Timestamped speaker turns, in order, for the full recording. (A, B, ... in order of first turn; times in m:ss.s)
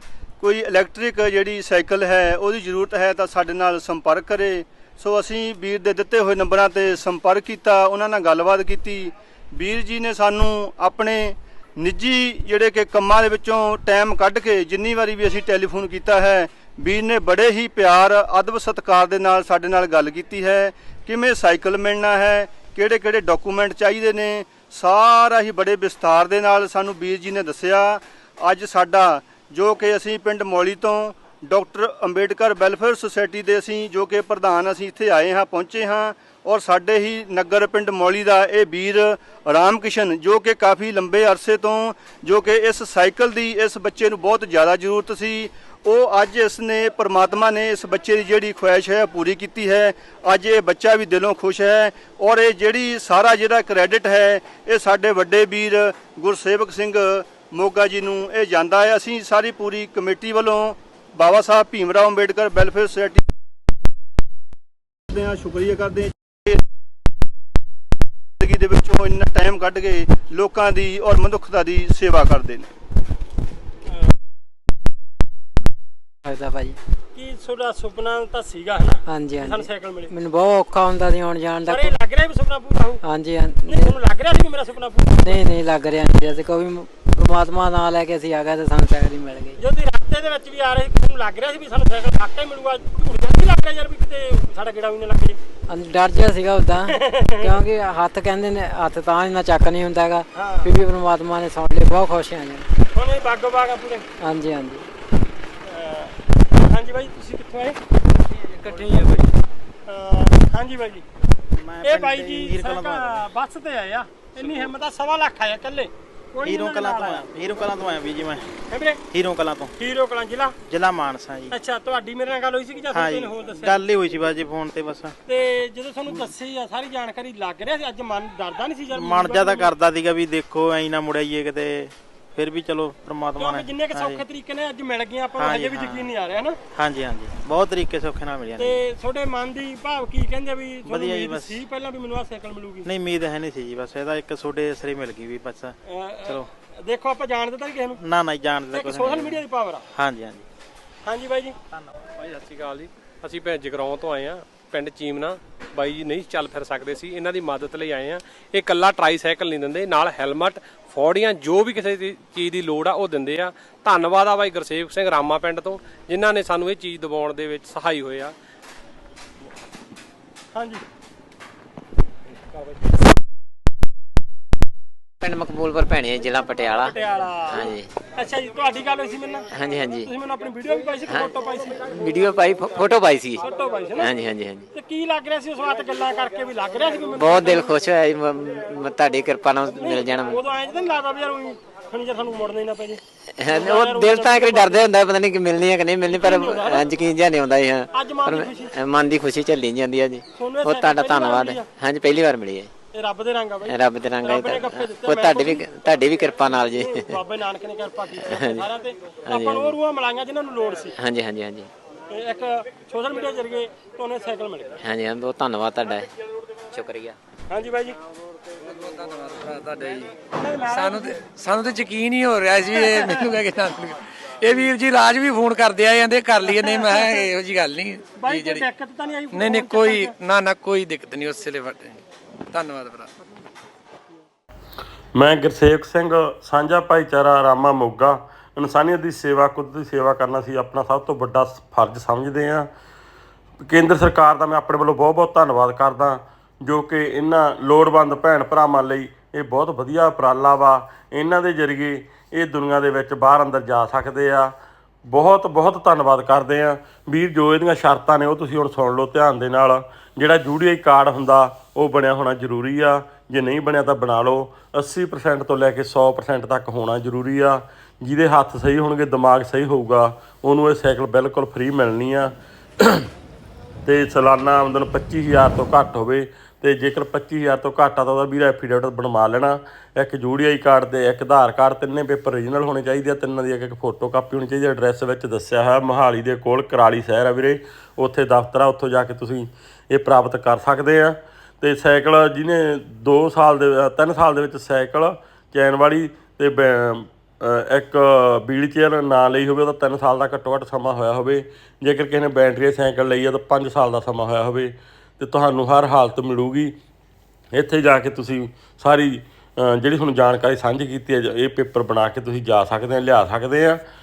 0:00.4-1:03.2 A
1:05.1-1:06.6 A
1:08.4-1:12.7 A
1:16.3-1:16.8 B
1:17.1-1:20.1 C
1:19.1-1:21.9 B
1:21.7-1:23.0 C
1:23.0-1:24.0 B
1:23.7-1:25.4 C
1:25.2-1:29.6 B
1:29.6-1:35.4 C
1:35.7-1:42.7 B
1:36.9-1:37.6 C
1:40.4-1:40.7 C
1:42.9-1:44.0 C
1:44.2-1:44.8 B
1:45.7-1:47.8 C
1:48.6-1:49.3 D
1:48.7-1:49.2 C
1:49.9-1:51.0 C
1:51.6-1:53.3 E
1:51.8-1:57.3 C
1:56.4-1:58.5 E
1:58.7-1:59.0 C
1:59.1-1:59.7 E
1:59.8-2:00.6 C
2:00.7-2:01.6 E
2:01.5-2:03.8 C
2:02.9-2:05.2 E
2:05.3-2:09.7 C
2:08.9-2:14.2 E
2:13.4-2:16.6 C
2:15.4-2:16.1 E
2:16.8-2:18.8 E
2:18.6-2:22.9 C
2:20.8-2:21.6 E
2:22.8-2:26.5 E
2:25.9-2:28.0 C
2:28.0-2:30.4 E
2:28.7-2:29.8 C
2:31.1-2:31.6 C
2:32.2-2:48.3 D
2:50.5-2:50.8 C
2:55.2-2:57.9 F
2:56.7-3:02.1 C
2:59.5-3:00.1 F
3:01.1-3:03.4 F
3:03.4-3:04.1 C
3:04.0-3:04.7 F
3:04.7-3:07.8 C
3:07.2-3:10.4 F
3:09.8-3:14.8 C
3:13.4-3:22.7 F
3:16.1-3:16.9 C
3:17.9-3:18.8 C
3:20.4-3:21.7 C
3:22.9-3:25.7 C
3:23.7-3:27.2 F
3:26.7-3:31.0 C
3:28.2-3:28.7 F
3:29.3-3:29.8 F
3:31.0-3:31.7 F
3:32.1-3:34.8 C
3:34.8-3:36.1 F
3:36.7-3:37.2 F
3:37.5-3:38.0 C
3:38.8-3:40.1 G
3:40.4-3:41.2 C
3:40.7-3:48.7 G
3:42.7-3:43.4 C
3:46.6-3:47.3 C
3:48.2-3:50.2 C
3:49.3-3:53.1 G
3:55.2-4:02.7 H
4:03.6-4:14.5 H
4:15.1-4:33.1 H
4:33.9-5:06.8 H
5:07.5-5:13.8 H